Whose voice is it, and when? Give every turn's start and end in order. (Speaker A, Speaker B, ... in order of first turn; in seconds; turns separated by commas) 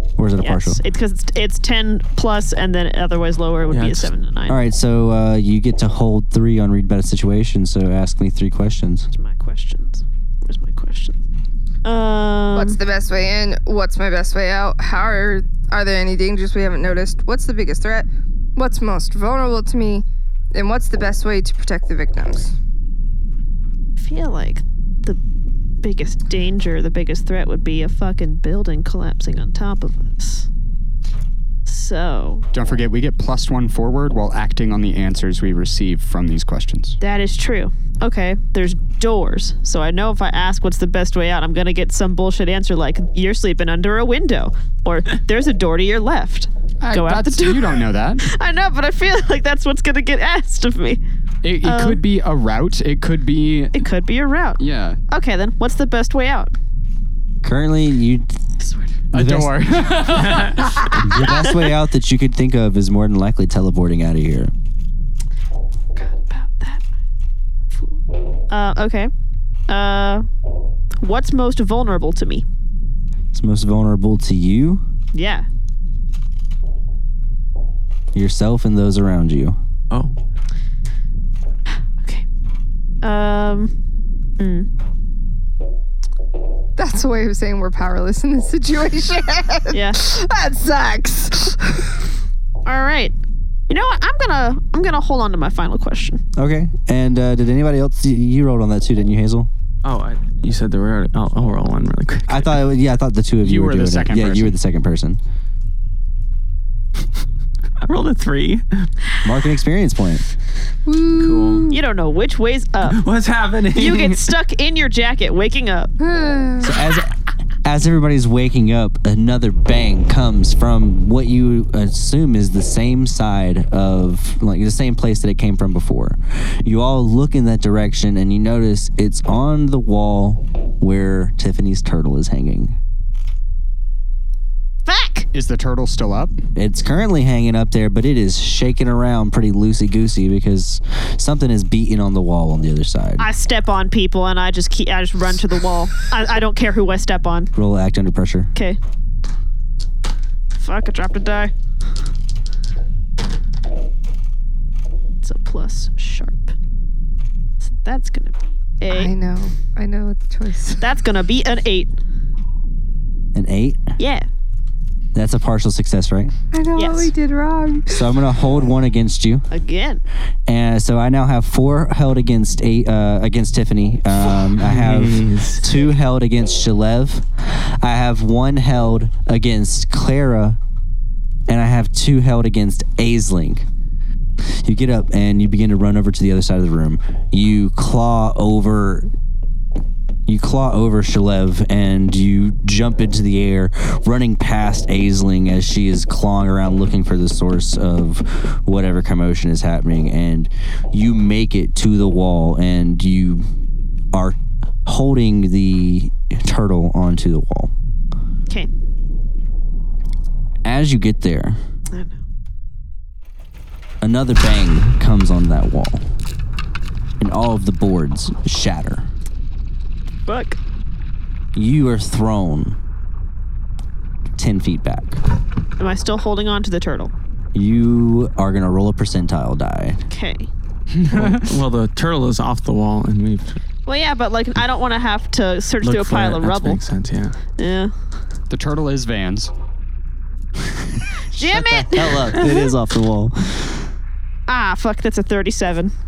Speaker A: 0.2-0.8, Speaker B: 0.4-4.6, Speaker C: 3.7-4.1, Speaker A: 4.5-9.1, Speaker B: 9.1-11.2, Speaker B: 11.8-12.8, Speaker D: 12.5-22.5, Speaker B: 24.0-25.2, Speaker B: 25.8-30.5, Speaker B: 31.7-32.5, Speaker E: 32.5-37.0, Speaker B: 37.0-51.0, Speaker E: 46.8-48.2, Speaker E: 51.4-53.8, Speaker B: 51.6-52.0, Speaker B: 53.7-56.5, Speaker E: 54.6-55.0, Speaker A: 57.4-58.3, Speaker B: 58.6-58.9, Speaker E: 59.1-61.2, Speaker A: 59.1-59.9, Speaker C: 60.2-60.6, Speaker A: 60.9-64.5, Speaker B: 61.2-61.6, Speaker B: 66.0-66.8, Speaker B: 67.7-69.1, Speaker B: 69.7-70.3, Speaker B: 71.0-72.5, Speaker A: 73.3-74.8, Speaker B: 75.1-75.5, Speaker A: 78.1-79.6, Speaker B: 83.0-83.7, Speaker B: 84.4-84.7, Speaker D: 86.8-92.0, Speaker B: 89.7-90.0, Speaker B: 92.7-93.2, Speaker B: 93.7-96.2, Speaker A: 96.4-99.5, Speaker C: 99.8-102.6, Speaker A: 102.3-105.2, Speaker E: 103.4-104.5, Speaker C: 107.8-108.9, Speaker A: 109.2-110.2, Speaker D: 110.9-111.8, Speaker C: 111.2-111.7, Speaker B: 111.7-113.0, Speaker C: 112.8-114.3, Speaker B: 113.8-115.9, Speaker D: 116.0-116.7, Speaker A: 116.6-132.8, Speaker B: 134.9-135.3, Speaker E: 135.3-136.4, Speaker A: 136.6-143.3, Speaker B: 143.2-147.5, Speaker A: 147.6-148.5, Speaker B: 150.6-151.5, Speaker B: 155.2-156.5, Speaker B: 157.7-159.1, Speaker D: 158.9-160.8, Speaker B: 160.8-161.9, Speaker A: 163.3-163.9, Speaker B: 164.0-164.3, Speaker A: 165.1-166.3, Speaker D: 166.5-168.0, Speaker B: 166.8-167.1, Speaker A: 167.9-169.5, Speaker B: 169.5-170.0, Speaker A: 170.5-180.6, Speaker C: 174.5-175.6, Speaker A: 181.5-183.7, Speaker A: 184.6-189.1, Speaker A: 190.3-203.5, Speaker A: 204.1-207.7, Speaker A: 210.7-211.6, Speaker B: 211.9-212.2, Speaker A: 214.0-216.1, Speaker A: 217.2-219.1, Speaker B: 220.3-220.6, Speaker A: 221.6-222.8, Speaker A: 224.4-225.2, Speaker B: 225.8-227.1, Speaker A: 227.5-230.0, Speaker B: 230.1-230.5, Speaker E: 230.9-231.5, Speaker C: 231.1-233.6, Speaker B: 233.9-236.8, Speaker C: 235.8-237.4, Speaker B: 237.6-237.9, Speaker E: 238.5-239.5, Speaker A: 241.3-243.8, Speaker B: 241.4-242.6, Speaker B: 244.5-245.9